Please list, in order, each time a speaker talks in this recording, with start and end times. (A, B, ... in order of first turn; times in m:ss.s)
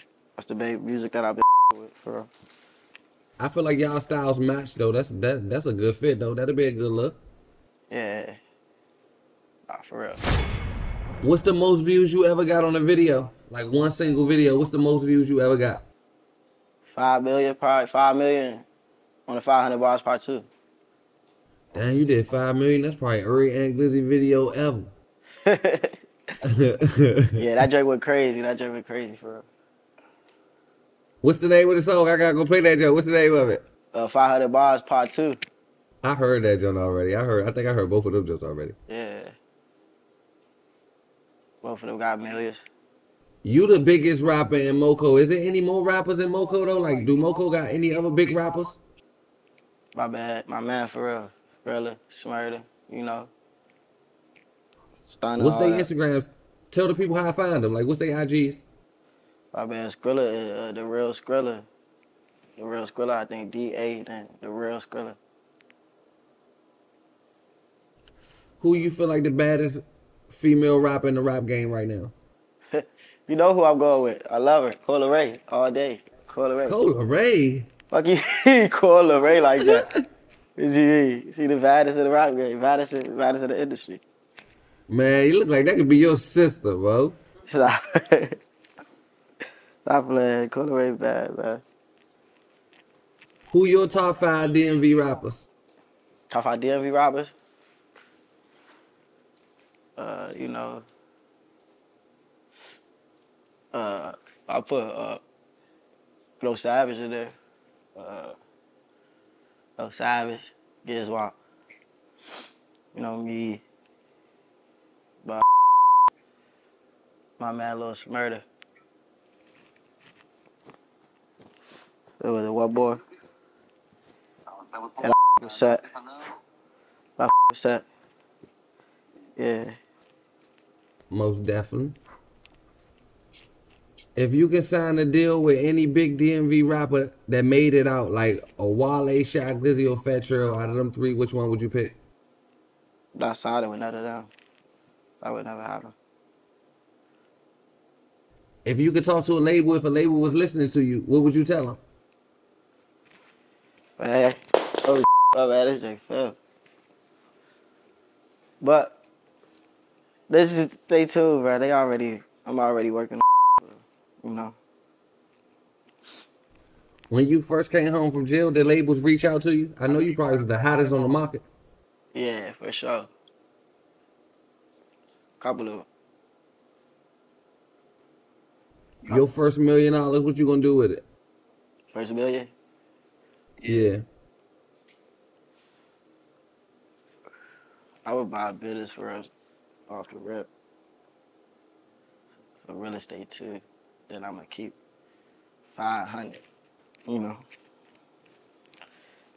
0:00.4-0:02.3 A
0:03.4-0:07.2 B
0:07.9-0:08.4 A
0:09.7-0:10.2 A
0:11.2-0:15.8 B
0:16.9-0:18.7 A
0:19.3-0:20.5 A
0:21.7-0:24.9 B
0:25.4-0:26.0 A
0:26.5-0:27.4 B
0:27.4-0:29.5 A
0:31.2-0:33.6 B
0:33.9-0:35.4 A
0:36.0-0:38.8 B
0:38.9-0:39.3 A
0:41.6-0:42.6 A
0:43.4-0:48.8 B
0:50.0-0:53.3 A
0:55.0-0:55.9 A
0:55.4-0:58.6 B
0:59.5-1:01.7 A
1:02.6-1:05.2 A
1:08.6-1:12.1 B
1:12.7-1:16.8 A
1:16.7-1:17.7 B
1:17.9-1:19.9 A
1:19.6-1:19.9 B
1:20.6-1:24.0 A
1:24.9-1:27.2 B
1:27.5-1:28.4 A
1:29.8-1:31.6 A
1:33.5-1:35.4 B
1:36.3-1:37.3 A
1:40.0-1:40.8 A
1:43.7-1:45.2 A
1:46.4-1:47.4 A
1:48.0-1:48.4 A
1:49.8-1:51.4 A
1:52.9-1:53.6 A
1:57.4-1:58.4 A
2:02.2-2:03.0 A
2:05.0-2:05.8 A
2:07.2-2:07.9 A
2:09.4-2:09.7 A
2:11.1-2:12.0 B
2:14.2-2:22.0 B
2:23.2-2:24.3 A
2:25.2-2:26.0 A
2:28.6-2:31.8 B
2:34.0-2:36.4 A
2:38.6-2:39.0 A
2:40.3-2:44.6 A
2:47.1-2:51.4 B
2:52.1-2:53.1 A
2:55.4-2:55.9 A
2:59.0-3:01.0 B
3:01.9-3:02.5 A
3:03.6-3:04.0 B
3:08.0-3:09.3 A
3:09.9-3:10.5 A
3:12.6-3:14.8 A
3:15.8-3:16.4 A
3:17.1-3:17.4 A